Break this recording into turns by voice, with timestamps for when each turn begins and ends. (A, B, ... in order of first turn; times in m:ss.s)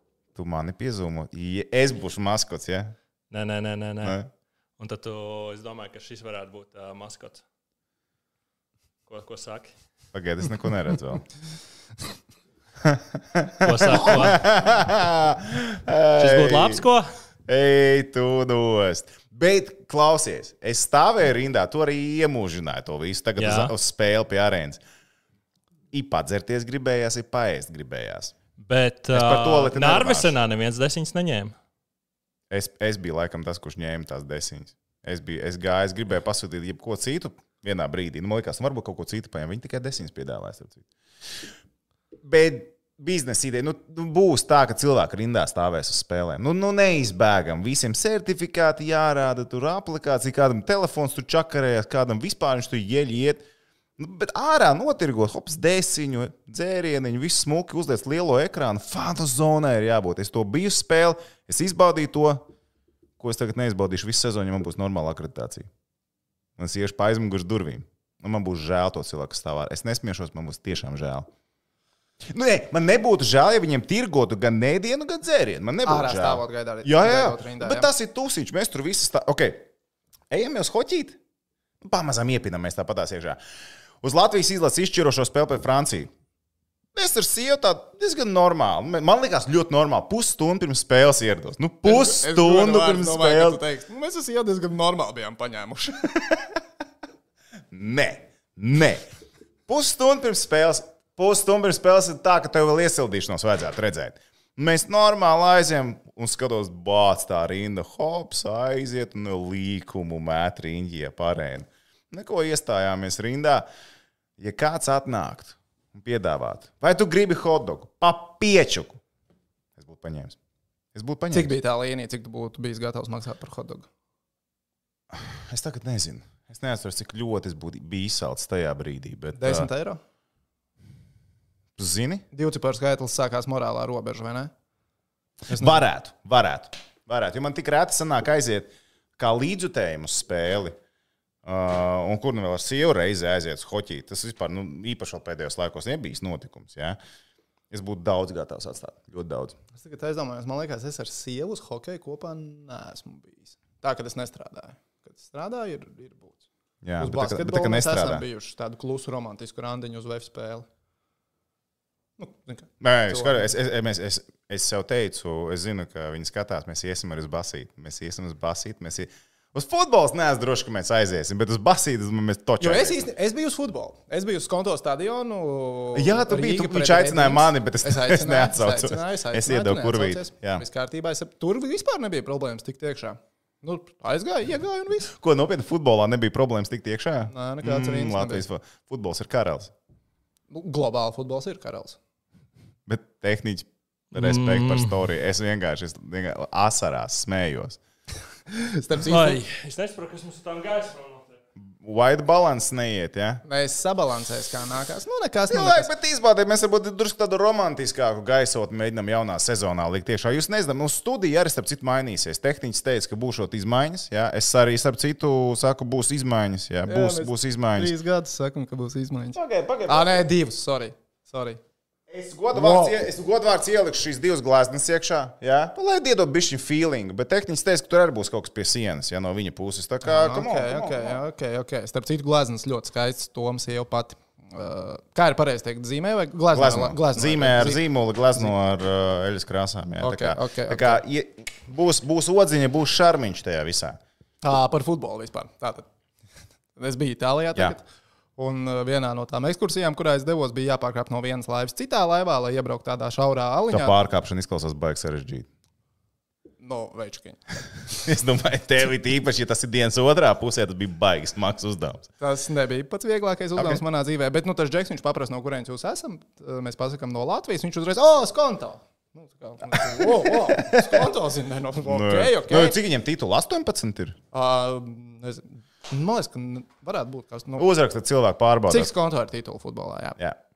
0:00.3-0:02.9 A
0:03.3-0:04.2 B
0:04.0-0:04.3 A
0:04.8-0:07.4 B
0:09.1-0:09.7 B
0:10.1-0:11.2 A
0:12.8-0:16.8 A
0:13.6-0:14.4 B
0:16.2-0:17.1 B
0:17.5-0:24.8 A
0:23.4-0:23.7 B
0:25.9-0:28.3 A
0:28.6-0:31.6 B
0:29.1-0:30.4 A
0:32.5-0:40.8 A
0:42.2-0:53.4 A
0:54.0-1:02.4 A
1:03.2-1:05.7 A
1:06.6-1:11.3 A
1:12.3-1:19.7 A
1:15.8-1:17.9 C
1:20.3-1:21.2 A
1:21.8-1:23.4 A
1:24.0-1:26.1 A
1:26.9-1:33.6 A
1:31.8-1:36.2 C
1:37.7-1:39.0 A
1:39.7-1:53.7 A
1:54.4-1:59.0 A
1:59.8-2:00.4 A
2:00.9-2:01.5 A
2:01.3-2:03.8 C
2:05.1-2:09.7 A
2:09.4-2:10.0 C
2:11.8-2:12.2 A
2:12.3-2:14.5 C
2:15.5-2:15.8 C
2:15.5-2:20.8 A
2:21.4-2:27.0 A
2:27.7-2:29.6 A
2:29.8-2:36.4 C
2:36.8-2:38.2 A
2:37.0-2:40.7 C
2:42.2-2:43.5 C
2:42.8-2:53.1 A
2:52.6-3:05.1 C
2:55.9-3:00.6 A
3:05.1-3:09.7 A
3:07.3-3:08.4 C
3:10.5-3:12.0 C
3:12.9-3:17.8 A
3:14.1-3:15.0 B
3:18.5-3:19.4 C
3:19.0-3:21.4 B
3:21.6-3:23.4 A
3:23.4-3:25.9 C
3:25.5-3:37.9 A
3:36.8-3:41.6 C
3:39.3-3:40.2 A
3:42.1-3:51.2 A
3:42.5-3:43.0 C
3:50.0-3:57.8 C
3:56.5-4:04.0 A
4:00.0-4:01.0 C
4:04.4-4:05.8 C
4:06.8-4:07.8 C
4:08.4-4:14.0 C
4:13.7-4:15.5 A
4:16.6-4:17.4 C
4:17.9-4:22.1 A
4:22.2-4:32.8 C
4:23.6-4:23.8 A
4:29.8-4:31.1 A
4:31.8-4:34.2 A
4:34.3-4:37.7 C
4:37.6-4:38.9 A
4:38.7-4:40.2 C